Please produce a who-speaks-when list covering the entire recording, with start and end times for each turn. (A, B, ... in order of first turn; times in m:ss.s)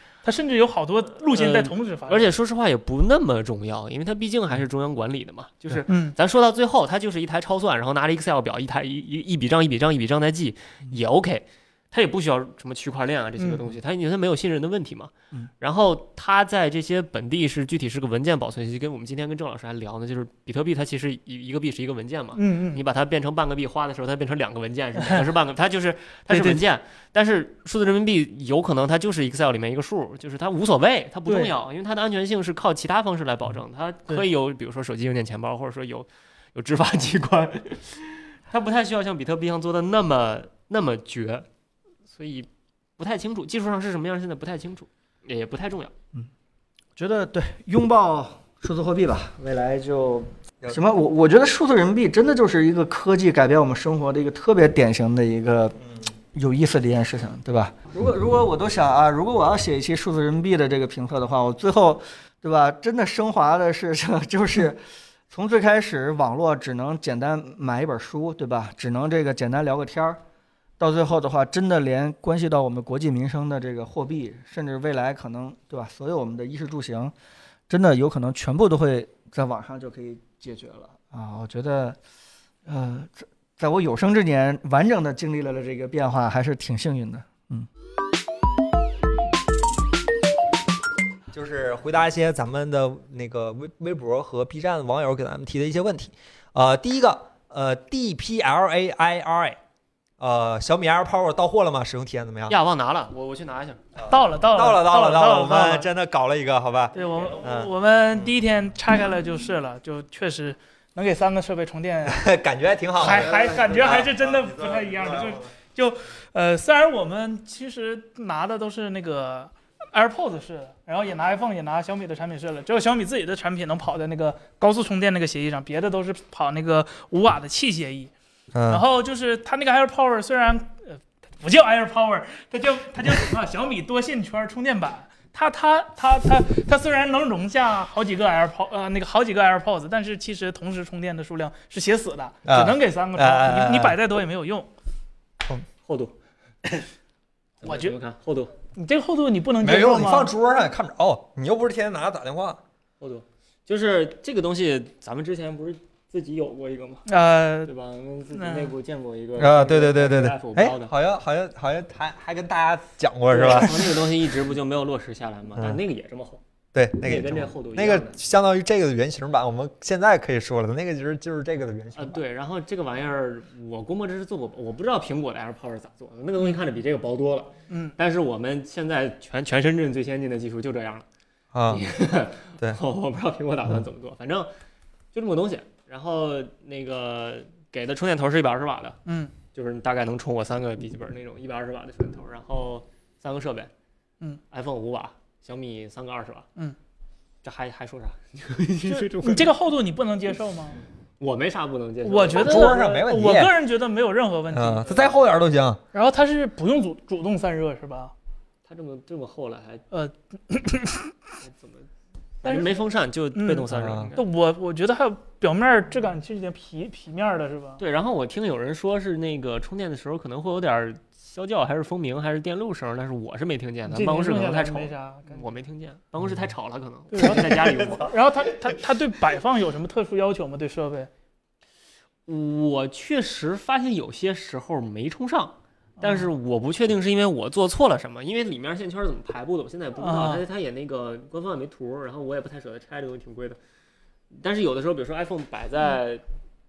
0:00.2-0:02.3 A
0:01.3-0:41.5 B
0:05.9-0:06.2 A
0:22.4-0:22.8 A
0:26.3-0:26.6 A
0:42.1-0:45.9 B
0:47.0-0:55.8 C
0:56.3-1:10.2 C
1:10.8-1:17.1 C
1:17.7-1:22.0 C
1:22.7-1:27.7 C
1:31.3-1:39.6 D
1:40.2-1:42.6 D
1:42.5-1:43.8 B
1:44.0-1:47.7 D
1:44.1-1:45.9 A
1:46.9-1:47.3 B
1:46.9-1:52.2 A
1:52.1-1:55.4 D
1:53.0-2:08.1 A
1:53.1-1:53.4 B
2:08.5-2:08.8 D
2:08.7-2:24.7 A
2:22.4-2:24.0 D
2:25.8-2:26.1 B
2:27.6-2:28.5 B
2:27.6-2:28.0 A
2:28.8-2:30.3 A
2:29.6-2:32.6 D
2:33.0-2:37.1 B
2:37.1-2:37.7 A
2:37.6-2:40.9 B
2:38.3-2:38.7 A
2:39.4-2:44.0 D
2:43.3-2:46.4 B
2:46.8-2:52.2 D
2:47.0-2:48.2 B
2:52.0-3:01.0 B
2:57.7-2:58.0 A
3:01.5-3:01.8 D
3:01.7-3:04.5 B
3:05.1-3:09.0 B
3:09.1-3:09.3 A
3:09.5-3:13.7 B
3:14.5-3:16.5 B
3:17.4-3:19.6 B
3:18.9-3:20.8 A
3:21.2-3:22.8 B
3:22.0-3:25.2 A
3:22.3-3:23.6 D
3:24.5-3:25.8 D
3:25.9-3:28.1 A
3:28.7-3:29.8 B
3:29.9-3:31.1 A
3:31.4-3:31.9 B
3:32.4-3:32.8 A
3:32.4-3:34.3 B
3:33.4-3:37.8 A
3:33.7-3:34.1 D
3:37.8-3:48.1 B
3:43.9-3:45.5 A
3:47.1-3:51.1 A
3:47.2-3:48.1 D
3:52.3-4:03.6 B
3:56.0-3:56.3 A
4:00.0-4:00.4 A
4:04.3-4:06.2 B